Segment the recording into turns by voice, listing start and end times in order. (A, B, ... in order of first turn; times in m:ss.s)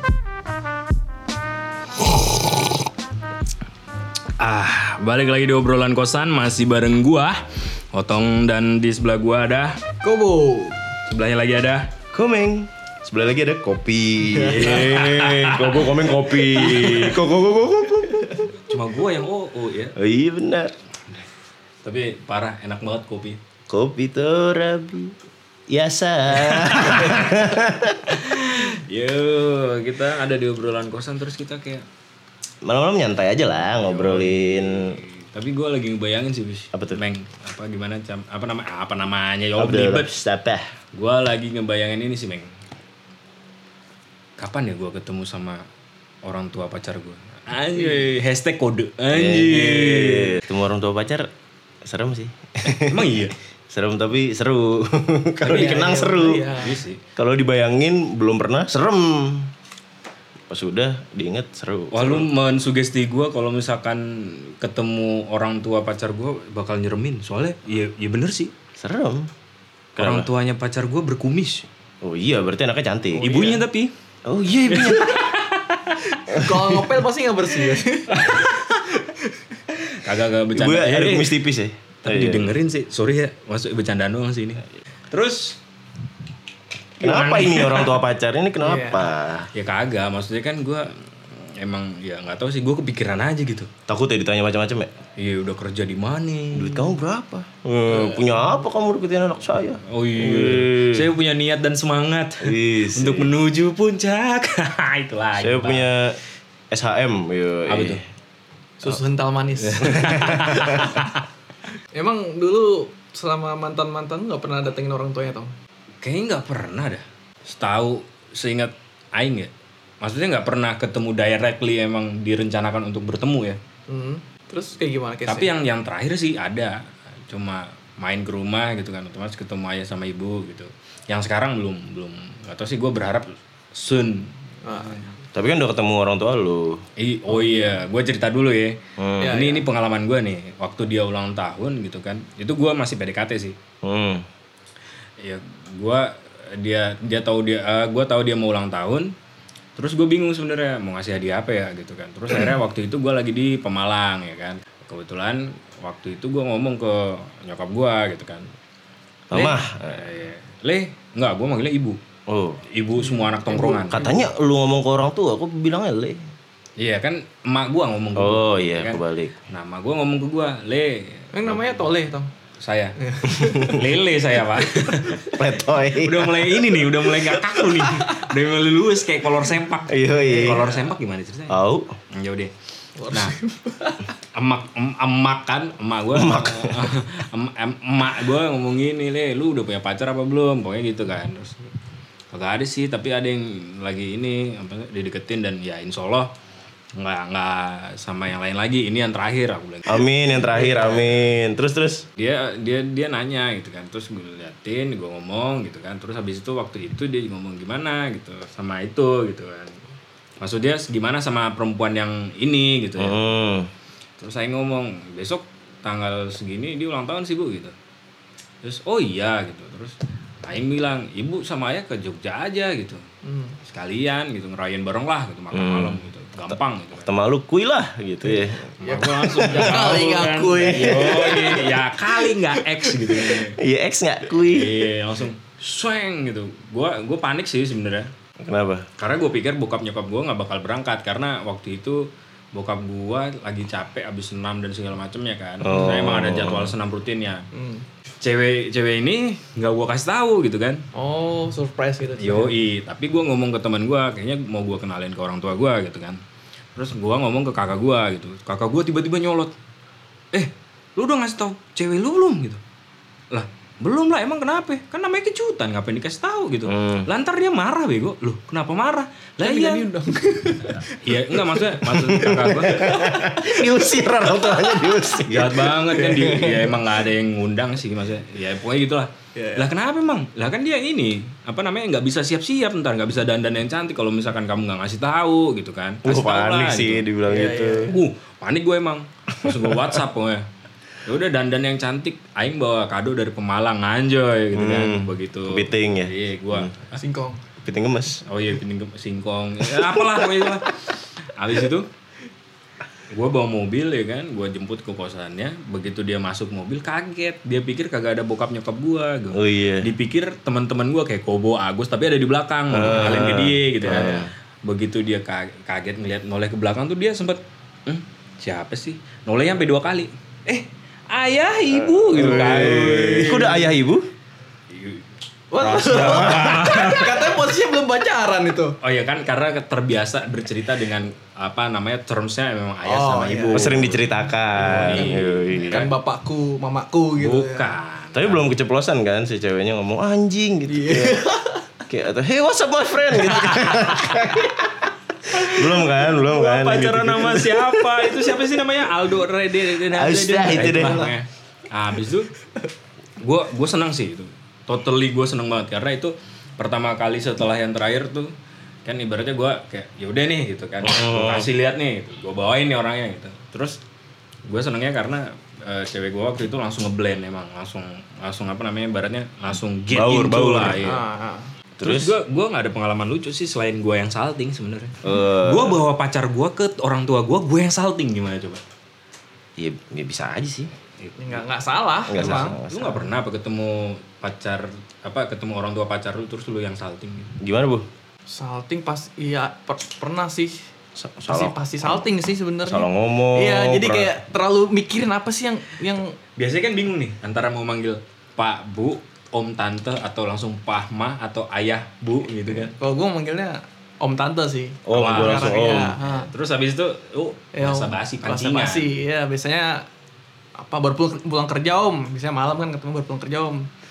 0:04.4-0:09.8 A
0:10.0-0:10.8 B
0:11.1-0:11.9 A
0:12.1-0:18.5 C
0:14.2-0:14.9 B
0:14.4-0:17.0 A
0:16.5-0:17.1 B
0:18.1-0:18.5 B
0:18.6-0:20.0 A
0:20.0-0:20.8 C
0:21.8-0:23.4 A
0:23.7-0:25.2 C
0:25.7-0:28.2 C
0:26.4-0:27.2 A
0:28.1-0:31.8 A
0:32.6-0:35.0 C
0:33.8-0:40.1 A
0:36.7-0:37.0 C
0:39.6-0:40.7 C
0:40.9-0:42.5 A
0:44.4-0:45.6 A
0:46.2-0:50.4 A
0:49.1-0:51.3 C
0:51.8-0:53.2 C
0:52.7-0:53.3 A
0:53.7-0:56.5 C
0:55.4-0:57.0 A
0:55.5-0:56.8 B
0:57.2-0:59.5 C
1:00.5-1:02.3 C
1:01.9-1:08.5 A
1:08.8-1:09.3 C
1:10.0-1:10.3 C
1:10.0-1:11.7 A
1:12.0-1:13.6 C
1:13.2-1:13.9 A
1:14.2-1:15.2 C
1:14.7-1:16.5 A
1:16.3-1:18.3 B
1:18.1-1:18.9 A
1:18.9-1:19.1 B
1:19.9-1:21.4 A
1:20.5-1:22.5 C
1:22.0-1:25.6 A
1:27.0-1:28.0 A
1:27.0-1:29.5 C
1:28.6-1:29.1 B
1:29.5-1:33.7 A
1:33.9-1:34.9 C
1:35.2-1:37.0 A
1:36.5-1:41.1 C
1:37.9-1:38.5 B
1:39.9-1:45.9 A
1:42.4-1:43.3 C
1:45.4-1:46.2 C
1:46.7-1:48.0 C
1:47.7-1:48.0 A
1:48.8-1:50.6 B
1:49.6-1:51.2 A
1:50.0-1:51.0 C
1:51.9-1:55.5 B
1:56.0-1:59.5 A
2:00.0-2:03.6 A
2:03.9-2:05.5 B
2:05.3-2:15.1 A
2:14.6-2:15.1 B
2:15.3-2:16.8 C
2:17.0-2:23.6 A
2:17.3-2:17.8 B
2:19.0-2:19.4 C
2:19.2-2:19.7 B
2:23.8-2:24.3 C
2:25.2-2:29.1 A
2:29.8-2:38.5 A
2:39.3-2:40.1 C
2:39.3-2:42.0 A
2:42.3-2:42.6 C
2:42.7-2:44.1 A
2:43.0-2:44.2 B
2:43.9-2:46.2 C
2:46.8-2:51.8 A
2:48.2-2:49.3 C
2:51.3-2:52.3 B
2:52.6-2:53.0 A
2:53.0-2:53.8 B
2:53.3-2:53.8 C
2:53.6-2:55.3 A
2:55.3-2:56.6 C
2:56.0-3:01.6 A
2:59.9-3:00.7 C
3:00.3-3:00.9 B
3:01.5-3:02.0 C
3:02.1-3:02.5 A
3:03.0-3:04.1 B
3:04.3-3:11.6 A
3:06.1-3:06.9 C
3:12.3-3:16.3 A
3:17.0-3:21.1 A
3:19.9-3:22.1 C
3:22.2-3:29.8 A
3:30.4-3:33.2 A
3:33.0-3:33.7 C
3:34.2-3:37.7 A
3:38.6-3:43.0 A
3:43.2-3:43.6 B
3:43.7-3:47.1 A
3:45.5-3:46.0 C
3:46.5-3:48.7 C
3:48.2-3:51.7 B
3:48.8-3:53.6 A
3:49.4-3:49.8 C
3:50.7-3:51.5 C
3:53.4-3:54.9 C
3:54.3-3:58.1 A
3:58.4-3:58.9 C
3:59.0-4:07.4 A
4:05.6-4:06.8 C
4:07.5-4:07.8 B
4:08.2-4:10.8 A
4:10.9-4:12.5 B
4:12.2-4:16.2 A
4:16.8-4:19.5 A
4:20.3-4:22.6 A
4:23.3-4:29.9 A
4:26.7-4:27.1 C
4:29.4-4:35.0 B
4:30.7-4:32.9 A
4:31.9-4:35.7 C
4:35.3-4:47.0 A
4:35.8-4:36.8 B
4:39.4-4:39.7 B
4:46.0-4:48.0 C
4:47.3-4:48.0 B
4:47.9-4:50.4 A
4:49.4-4:49.9 C
4:51.0-4:57.0 A
4:54.5-4:56.7 C
4:56.9-4:57.4 B
4:57.6-4:58.2 C
4:58.3-5:01.9 A
4:59.8-5:00.1 C
5:03.1-5:23.7 A
5:09.3-5:09.9 C
5:12.7-5:14.3 C
5:21.8-5:24.1 C
5:24.7-5:25.1 A
5:25.5-5:28.8 B
5:25.6-5:27.4 A
5:25.9-5:27.0 C
5:28.8-5:35.9 A
5:32.8-5:33.8 B
5:33.5-5:35.9 C
5:34.9-5:37.7 B
5:37.2-5:38.5 A
5:38.1-5:41.2 C
5:40.7-5:41.6 B
5:41.9-5:48.1 C
5:43.6-5:44.1 A
5:45.3-5:52.3 A
5:49.8-5:51.1 C
5:53.2-5:58.3 A
5:58.8-6:03.8 A
6:00.8-6:01.5 C
6:04.5-6:11.0 A
6:09.9-6:10.8 C
6:10.8-6:11.5 B
6:11.8-6:12.2 C
6:11.8-6:18.6 A
6:15.0-6:15.8 C
6:19.6-6:20.7 C
6:21.0-6:21.4 A
6:21.2-6:22.6 B
6:22.1-6:23.1 C
6:22.2-6:27.3 A
6:27.4-6:27.9 C
6:28.3-6:30.6 B
6:31.0-6:32.1 C
6:31.3-6:36.2 B
6:32.6-6:34.1 C
6:36.4-6:42.7 A
6:42.8-6:46.3 B
6:44.9-6:46.0 C
6:44.9-6:48.9 A
6:47.5-6:49.9 B
6:50.6-6:53.7 B